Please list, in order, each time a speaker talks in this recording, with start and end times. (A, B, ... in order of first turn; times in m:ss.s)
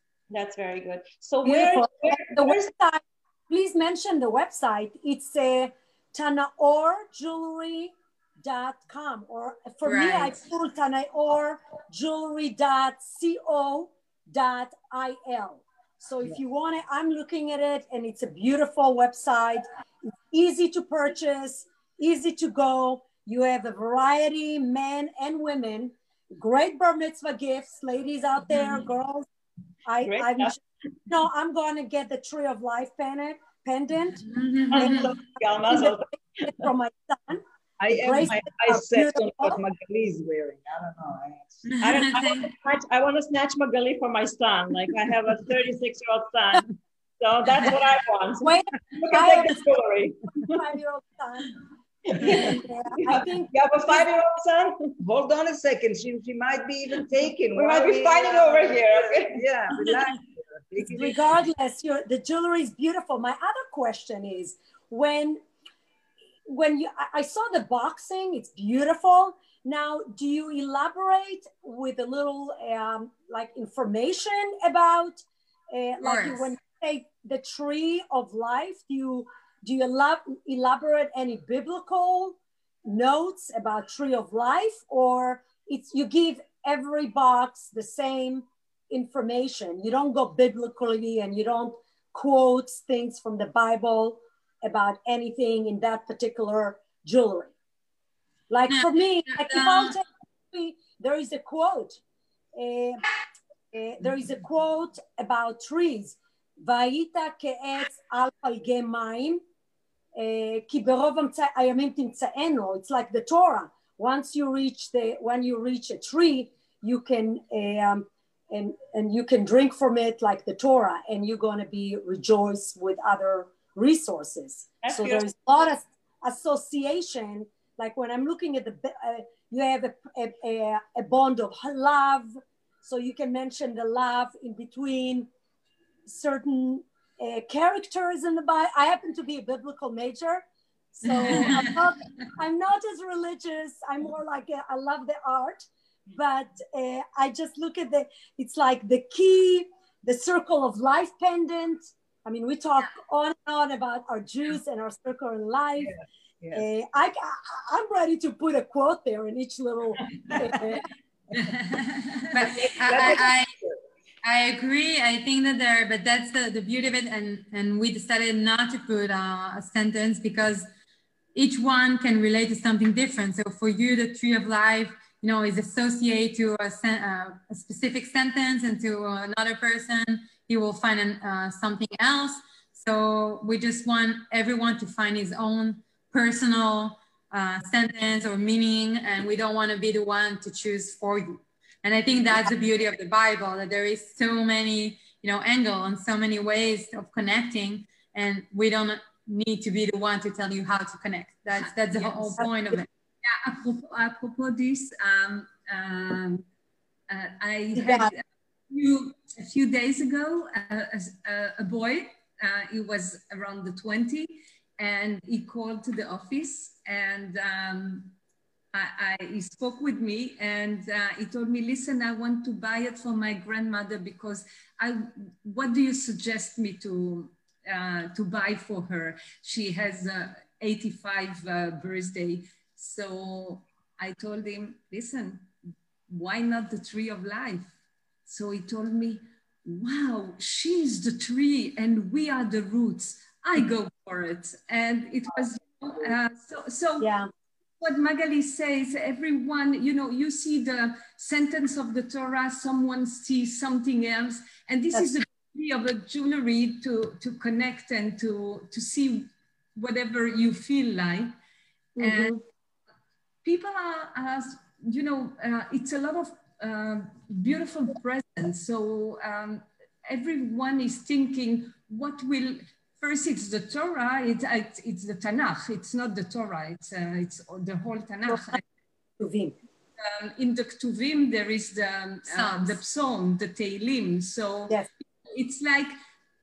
0:00.3-0:02.7 A
0:01.4-0:19.6 B
0:09.8-0:10.3 C
0:20.3-0:29.3 B
0:29.8-0:39.6 B
0:30.0-0:30.6 A
0:34.3-0:35.1 C
0:34.7-0:36.7 A
0:37.8-0:41.6 D
0:41.7-0:42.5 C
0:41.8-0:50.4 A
0:48.4-0:49.6 B
0:50.3-0:51.6 B
0:52.1-0:54.9 A
0:52.2-0:53.5 B
0:53.1-0:54.4 D
0:55.0-1:01.2 D
0:57.5-1:00.0 A
1:00.8-1:05.4 B
1:06.5-1:37.5 B
1:16.0-1:16.5 C
1:38.5-1:42.0 B
1:38.7-1:39.9 C
1:42.6-1:43.0 B
1:43.7-1:49.4 B
1:50.2-2:15.3 B
2:04.8-2:05.3 A
2:16.0-2:20.4 B
2:20.9-2:35.9 B
2:21.2-2:21.7 E
2:35.8-2:36.6 D
2:36.5-2:40.8 B
2:41.3-2:42.6 E
2:42.3-2:43.5 C
2:42.6-2:43.8 D
2:44.2-2:50.7 C
2:51.3-3:22.9 C
3:21.6-3:22.4 E
3:23.2-3:26.4 E
3:27.1-3:38.2 E
3:27.8-3:28.1 B
3:38.7-3:55.5 E
3:56.1-3:57.7 E
3:58.3-4:07.1 E
4:07.0-4:07.3 B
4:07.8-4:21.3 E
4:22.0-4:22.4 B
4:22.0-4:22.4 E
4:23.4-4:38.6 E
4:38.3-4:38.6 B
4:39.2-4:39.5 B
4:40.0-4:45.9 E
4:42.3-4:42.8 C